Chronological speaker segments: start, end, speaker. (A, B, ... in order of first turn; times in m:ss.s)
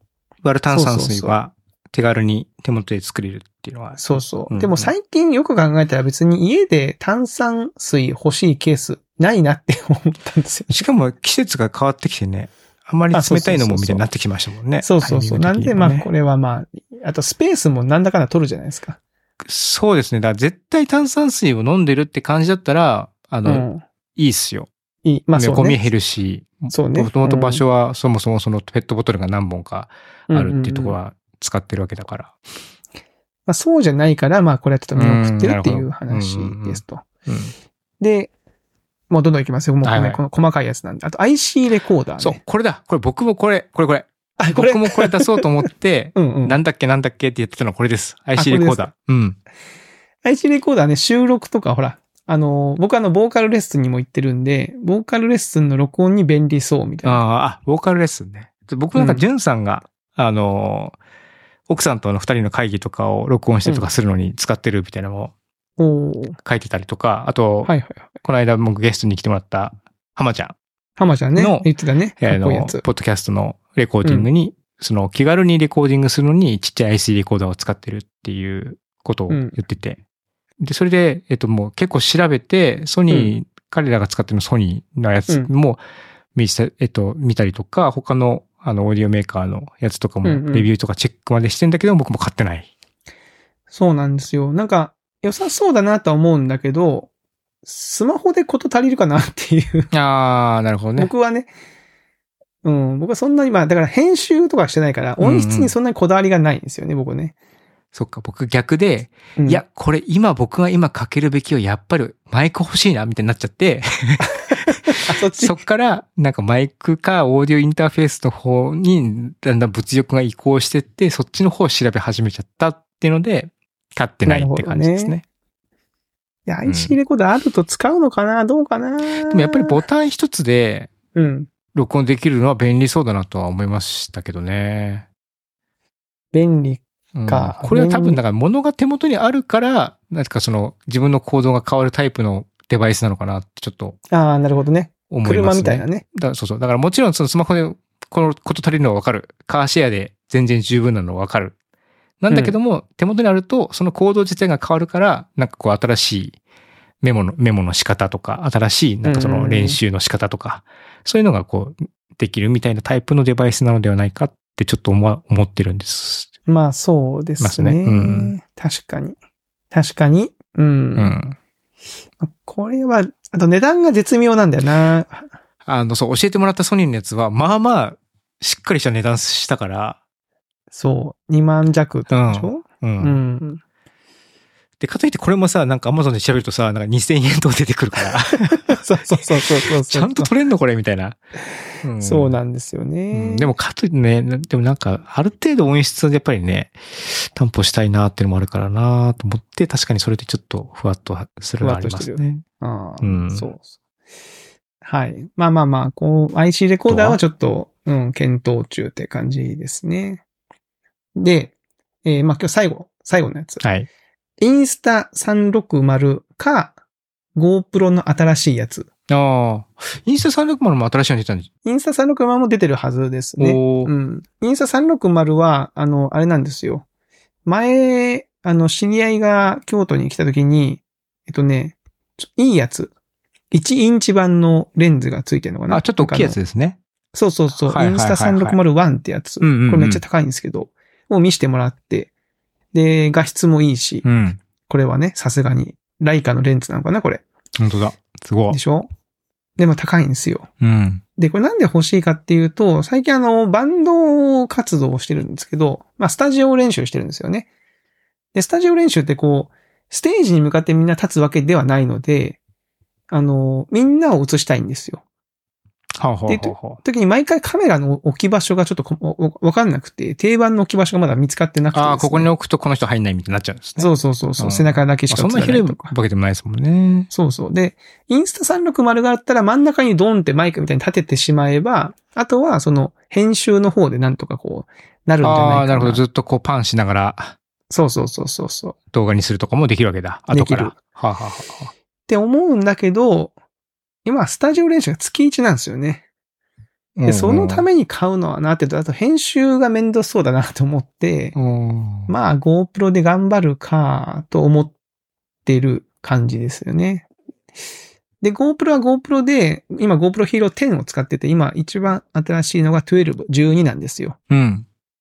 0:00.4-0:04.9 A
0:00.7-0:01.3 B
0:04.0-0:10.8 B
0:10.7-0:16.1 A
0:13.1-0:14.0 B
0:14.8-0:19.0 B
0:19.4-0:24.7 A
0:23.4-0:23.8 B
0:25.0-0:25.8 B
0:25.3-0:32.3 A
0:26.7-0:27.6 B
0:30.3-0:31.0 B
0:33.4-0:37.0 B
0:34.9-0:37.5 A
0:38.0-0:38.3 B
0:39.1-0:42.4 B
0:39.8-0:40.2 A
0:42.2-0:49.4 A
0:44.4-0:45.4 B
0:46.2-0:46.6 B
0:48.4-0:48.9 B
0:50.2-0:57.2 B
0:57.0-1:01.0 A
0:58.9-0:59.2 B
1:01.7-1:05.3 A
1:05.8-1:06.4 B
1:06.4-1:10.6 A
1:07.6-1:08.0 B
1:11.0-1:12.8 B
1:11.4-1:20.0 A
1:14.0-1:14.3 B
1:19.3-1:19.6 B
1:20.6-1:25.8 A
1:26.3-1:32.7 A
1:30.2-1:30.7 B
1:33.7-1:37.1 B
1:37.6-1:39.9 B
1:39.9-1:41.1 A
1:41.0-1:41.5 B
1:42.6-1:47.3 B
1:45.2-1:45.7 A
1:47.9-2:05.2 A
1:49.4-1:49.6 B
1:55.0-1:55.6 B
2:04.2-2:05.1 B
2:06.5-2:09.8 B
2:06.6-2:07.0 A
2:09.1-2:10.9 A
2:11.1-2:11.5 B
2:11.7-2:15.0 A
2:16.3-2:18.2 B
2:17.2-2:24.0 A
2:24.1-2:26.0 B
2:25.1-2:31.5 A
2:32.2-2:36.4 A
2:32.3-2:32.6 B
2:37.0-2:46.3 A
2:39.0-2:39.8 B
2:46.5-2:49.2 B
2:47.4-2:48.3 A
2:49.7-2:51.1 B
2:51.0-2:51.4 A
2:52.2-2:55.3 B
2:55.6-3:00.0 A
3:00.7-3:03.6 B
3:02.1-3:03.2 A
3:04.8-3:08.8 A
3:08.7-3:10.3 B
3:09.8-3:11.2 A
3:11.8-3:12.4 A
3:12.0-3:13.5 B
3:13.1-3:22.4 A
3:21.6-3:23.7 B
3:23.0-3:23.5 A
3:24.8-3:30.2 B
3:26.9-3:27.2 A
3:31.2-3:31.5 B
3:32.0-3:33.6 B
3:33.6-3:33.9 A
3:34.4-3:36.8 B
3:37.3-3:38.9 B
3:39.1-3:41.5 A
3:41.6-3:46.8 B
3:43.4-3:43.9 A
3:47.4-3:52.9 B
3:53.5-3:56.4 B
3:55.7-3:56.8 A
3:57.1-4:02.1 B
3:57.6-3:58.6 A
3:59.4-4:00.0 A
4:02.7-4:04.0 B
4:04.0-4:04.4 A
4:04.7-4:07.2 B
4:07.6-4:08.6 A
4:08.5-4:08.9 B
4:09.6-4:10.5 B
4:10.6-4:11.0 A
4:11.2-4:17.5 B
4:18.3-4:22.4 B
4:23.1-4:25.0 B
4:26.0-4:26.8 A
4:26.3-4:32.3 B
4:31.7-4:37.1 A
4:33.8-4:35.9 B
4:37.1-4:46.0 B
4:45.2-4:47.3 A
4:47.7-4:48.8 B
4:48.9-4:51.7 A
4:50.3-4:50.7 B
4:52.1-4:53.3 B
4:54.0-4:56.0 B
4:57.0-4:57.6 A
4:57.1-5:01.4 B
5:01.3-5:02.1 A
5:02.1-5:04.7 B
5:05.4-5:07.1 B
5:08.2-5:14.2 B
5:14.3-5:14.6 A